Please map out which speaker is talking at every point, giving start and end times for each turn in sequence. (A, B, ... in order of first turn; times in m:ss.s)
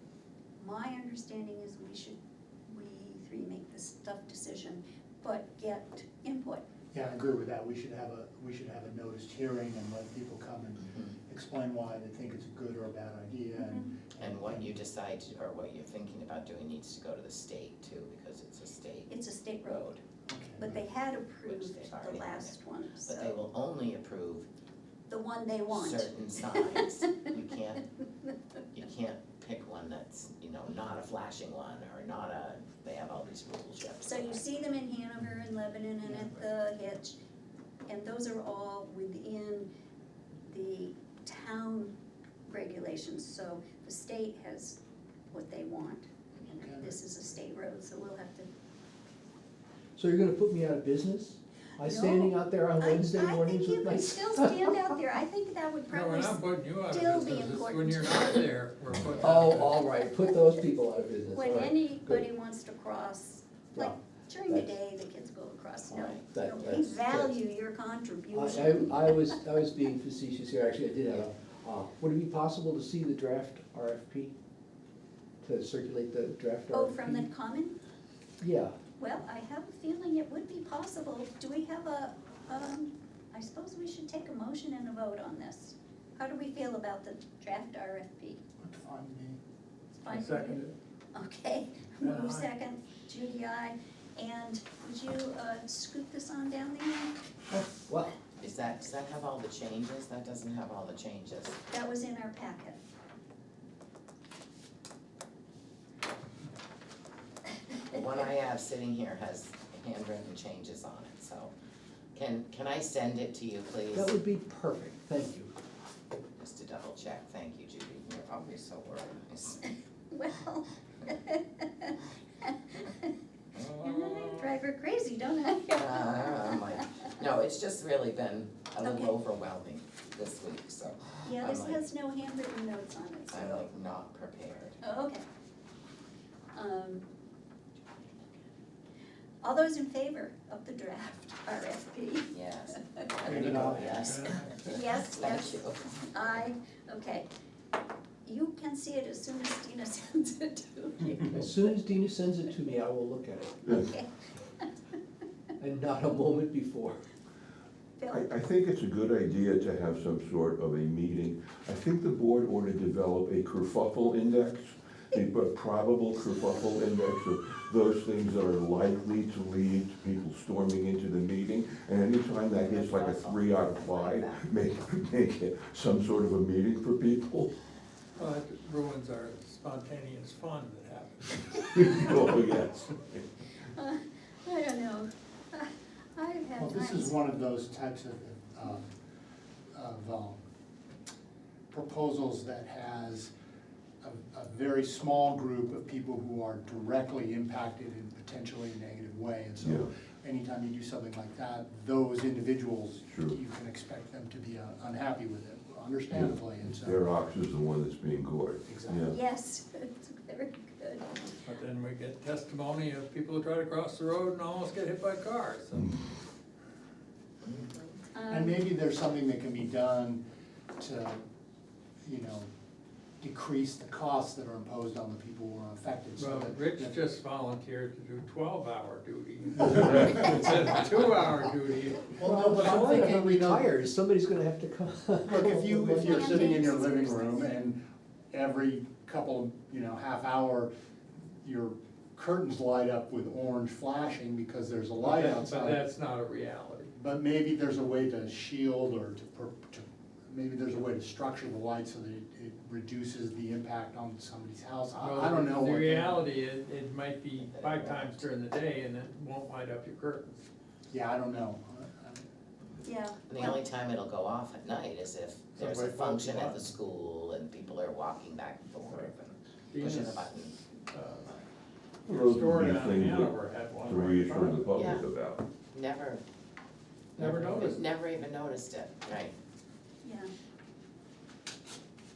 0:00.6-0:06.6 A
0:06.9-0:14.8 B
0:13.6-0:13.9 A
0:14.2-0:19.1 C
0:19.1-0:20.0 A
0:19.6-0:20.0 C
0:20.3-0:20.8 B
0:20.6-0:23.4 A
0:21.4-0:24.5 C
0:25.1-0:27.3 A
0:25.7-0:27.8 C
0:28.7-0:34.6 C
0:34.0-0:37.2 A
0:37.9-0:39.7 A
0:40.4-0:41.9 A
0:42.4-0:44.8 A
0:45.3-0:48.5 A
0:46.6-0:47.0 B
0:50.0-0:55.0 D
0:51.8-0:58.4 A
0:55.9-0:59.8 E
0:59.2-1:02.2 D
1:01.3-1:09.2 A
1:03.7-1:04.8 D
1:06.2-1:07.4 D
1:08.3-1:14.3 D
1:15.4-1:17.3 D
1:16.7-1:17.8 A
1:18.4-1:18.8 D
1:19.0-1:28.4 A
1:28.6-1:29.4 B
1:29.9-1:30.6 A
1:30.1-1:30.7 E
1:31.1-1:37.1 A
1:32.0-1:32.5 E
1:37.5-1:38.1 D
1:38.4-1:41.6 C
1:41.7-1:42.8 A
1:47.8-1:51.5 C
1:52.1-1:54.1 C
1:53.9-1:55.5 D
1:56.4-1:59.7 C
2:00.1-2:03.1 A
2:03.5-2:04.5 C
2:03.8-2:06.8 A
2:05.7-2:11.8 C
2:08.8-2:09.2 A
2:11.2-2:13.7 A
2:13.3-2:14.8 C
2:14.8-2:15.2 A
2:16.5-2:17.0 A
2:19.4-2:23.2 A
2:22.3-2:24.5 C
2:23.2-2:24.3 B
2:23.5-2:24.7 E
2:24.6-2:25.6 A
2:25.1-2:26.1 C
2:26.1-2:27.3 A
2:28.2-2:31.6 A
2:31.3-2:33.6 D
2:33.6-2:34.7 A
2:35.6-2:37.0 D
2:38.0-2:38.2 A
2:38.1-2:57.5 F
2:52.6-2:54.4 C
2:58.2-3:01.8 E
3:01.5-3:03.2 F
3:03.7-3:07.2 A
3:06.6-3:08.9 B
3:09.7-3:10.4 B
3:11.7-3:13.3 B
3:14.0-3:27.0 B
3:19.6-3:19.9 F
3:23.1-3:23.4 F
3:26.1-3:29.2 F
3:28.6-3:29.1 B
3:29.1-3:31.1 A
3:31.4-3:36.0 E
3:37.4-3:37.9 C
3:38.1-3:38.6 A
3:38.3-3:40.2 B
3:40.8-3:41.2 B
3:42.0-3:42.5 B
3:43.2-3:47.0 B
3:46.2-3:52.1 E
3:52.1-3:53.6 B
3:52.2-3:56.7 D
3:55.3-3:57.8 B
3:56.0-3:57.5 A
3:58.3-4:00.7 B
4:01.4-4:05.8 B
4:05.0-4:06.9 E
4:06.9-4:16.2 B
4:15.0-4:20.4 E
4:17.4-4:18.2 C
4:20.9-4:22.2 B
4:22.8-4:23.6 A
4:23.3-4:30.6 C
4:25.6-4:26.7 E
4:28.8-4:29.1 E
4:29.7-4:31.4 E
4:32.0-4:34.6 E
4:32.1-4:35.4 F
4:34.7-4:35.0 C
4:35.7-4:36.2 C
4:37.2-4:37.9 E
4:37.6-4:39.3 C
4:40.0-4:40.3 A